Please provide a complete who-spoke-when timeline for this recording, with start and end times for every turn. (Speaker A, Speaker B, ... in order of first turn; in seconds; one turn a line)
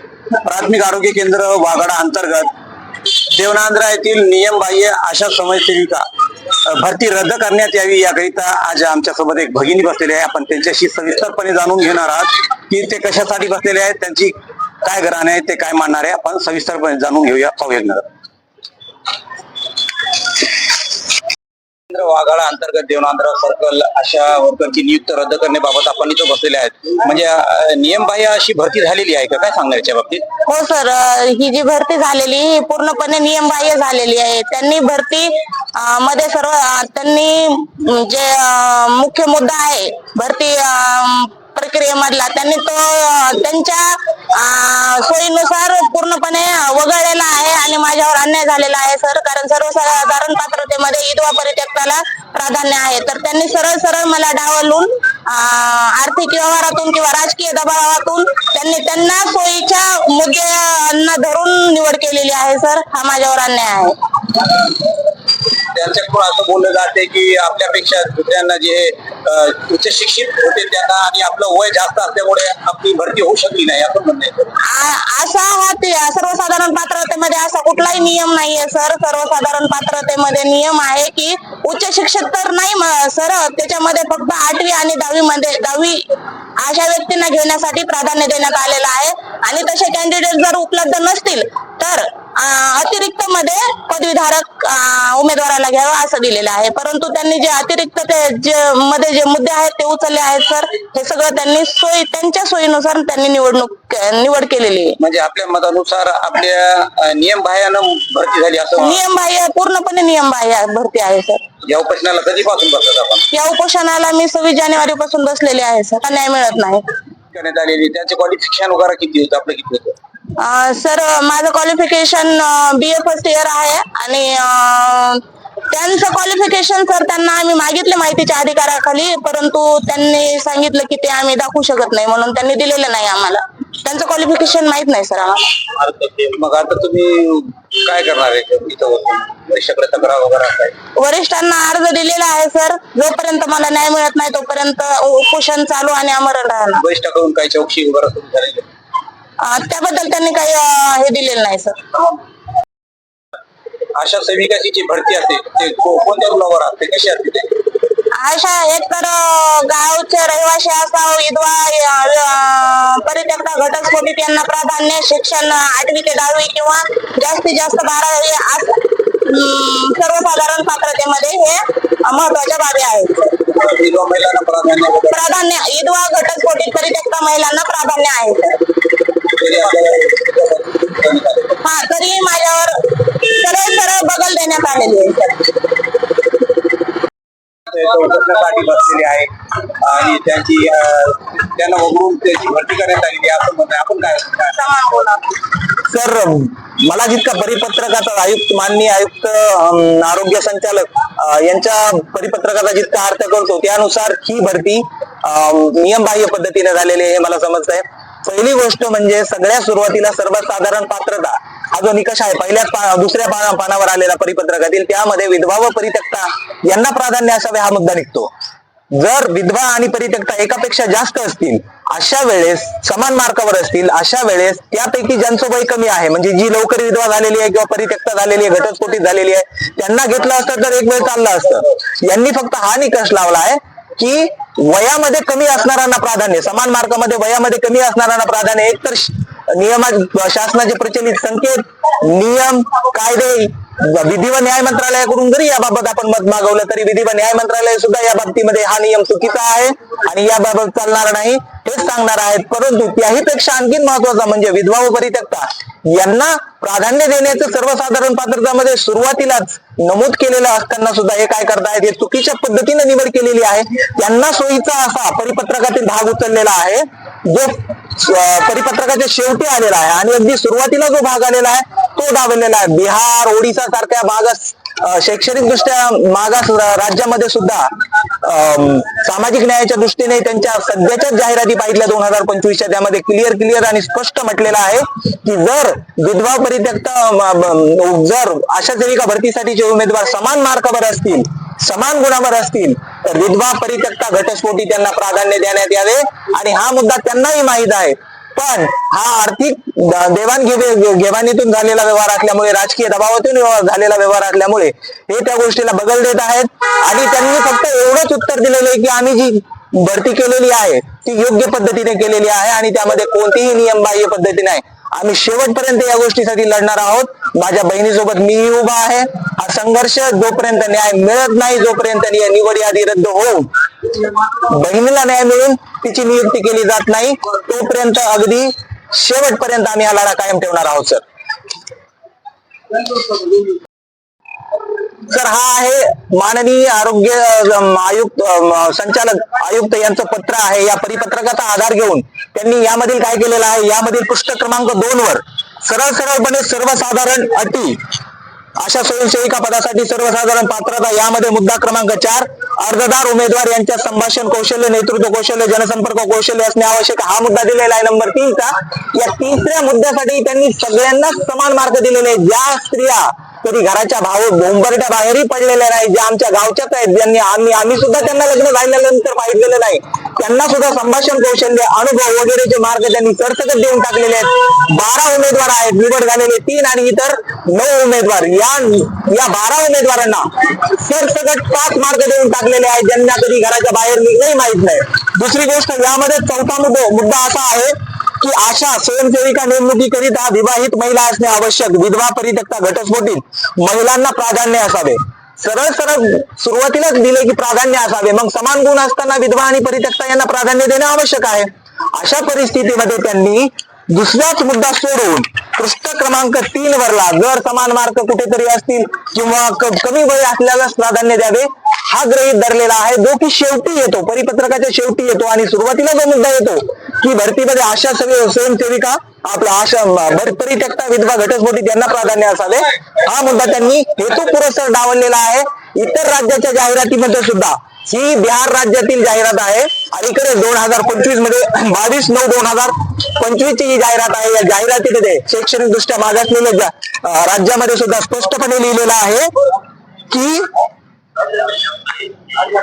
Speaker A: 0.3-2.5
Speaker A: 3.3-18.1
Speaker A: 21.9-30.3
Speaker B: 30.5-64.0
Speaker A: 65.7-74.5
Speaker B: 74.6-105.0
Speaker A: 105.0-109.0
Speaker B: 108.8-111.5
Speaker A: 111.6-113.2
Speaker B: 113.3-116.9
Speaker A: 117.3-120.0
Speaker B: 120.3-135.5
Speaker A: 135.9-140.7
Speaker B: 141.0-146.8
Speaker A: 146.8-148.7
Speaker B: 149.4-152.0
Speaker A: 153.9-157.5
Speaker B: 158.1-173.4
Speaker A: 173.5-175.2
Speaker B: 175.1-178.6
Speaker A: 179.3-181.6
Speaker B: 181.6-185.6
Speaker A: 187.7-194.6
Speaker B: 194.6-195.3
Speaker C: 195.9-218.3
Speaker C: 218.9-323.5
Speaker C: 324.3-331.0
Speaker C: 335.1-347.8
Speaker C: 348.6-439.3
Speaker C: 440.1-440.5